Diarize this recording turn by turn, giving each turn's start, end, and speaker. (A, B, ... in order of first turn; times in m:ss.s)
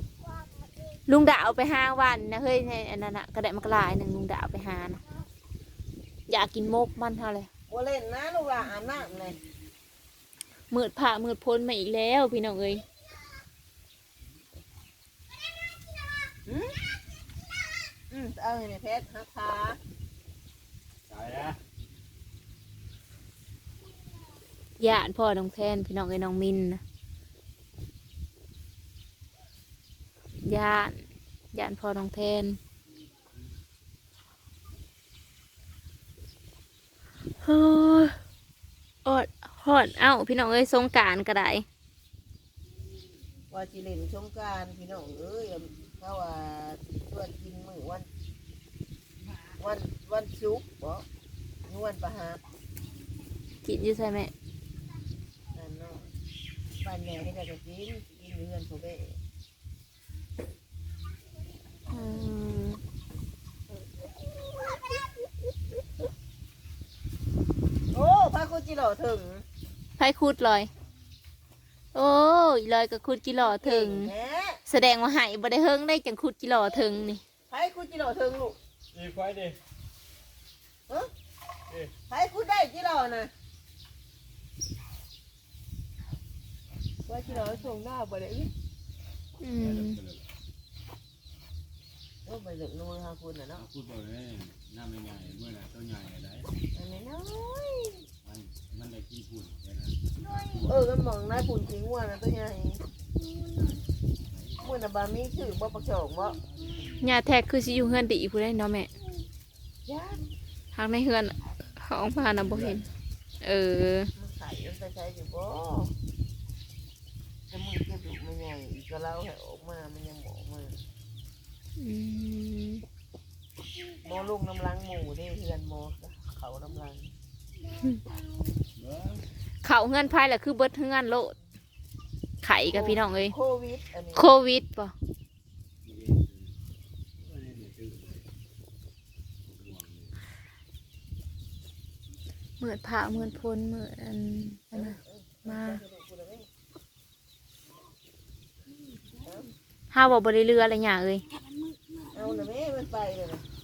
0:01.1-0:05.0 A
0:06.3-0:07.5 A
0:07.7-0:09.4 B
0:10.7-0:12.8 A
0:16.5-0:16.7 B
0:18.1-0:19.8 B
0:21.1-0:21.6 C
0:24.8-0:26.8 A
0:30.4-0:31.0 A
0:31.5-0:32.6 A
0:37.4-0:38.2 A
0:39.0-0:41.6 A
0:43.5-0:48.1 B
0:49.6-0:51.0 B
0:51.6-0:52.4 B
0:53.6-0:54.3 A
0:55.5-0:56.1 B
0:56.8-0:59.2 B
1:01.9-1:02.8 A
1:07.9-1:09.4 B
1:10.0-1:10.7 A
1:11.9-1:14.1 A
1:13.4-1:14.6 B
1:14.7-1:17.2 A
1:17.5-1:18.6 B
1:18.9-1:19.6 C
1:22.1-1:23.3 B
1:27.1-1:28.5 B
1:29.4-1:30.0 A
1:29.6-1:30.2 C
1:32.2-1:33.6 B
1:33.6-1:36.5 C
1:36.8-1:38.0 B
1:38.2-1:40.5 C
1:40.6-1:42.8 B
1:44.6-1:46.4 B
1:47.0-1:48.9 A
1:49.9-1:50.2 B
1:50.8-1:52.9 A
1:53.4-1:54.1 A
1:54.2-1:55.9 B
1:57.5-2:00.8 B
2:01.8-2:02.8 A
2:04.0-2:07.1 B
2:08.8-2:09.2 C
2:09.6-2:11.3 A
2:12.4-2:13.3 A
2:12.7-2:14.3 B
2:14.2-2:14.9 A
2:15.8-2:16.5 C
2:17.2-2:18.3 C
2:19.4-2:20.2 C
2:22.6-2:25.8 A
2:24.7-2:26.5 B
2:29.1-2:29.5 B
2:29.9-2:31.2 A
2:32.1-2:33.4 B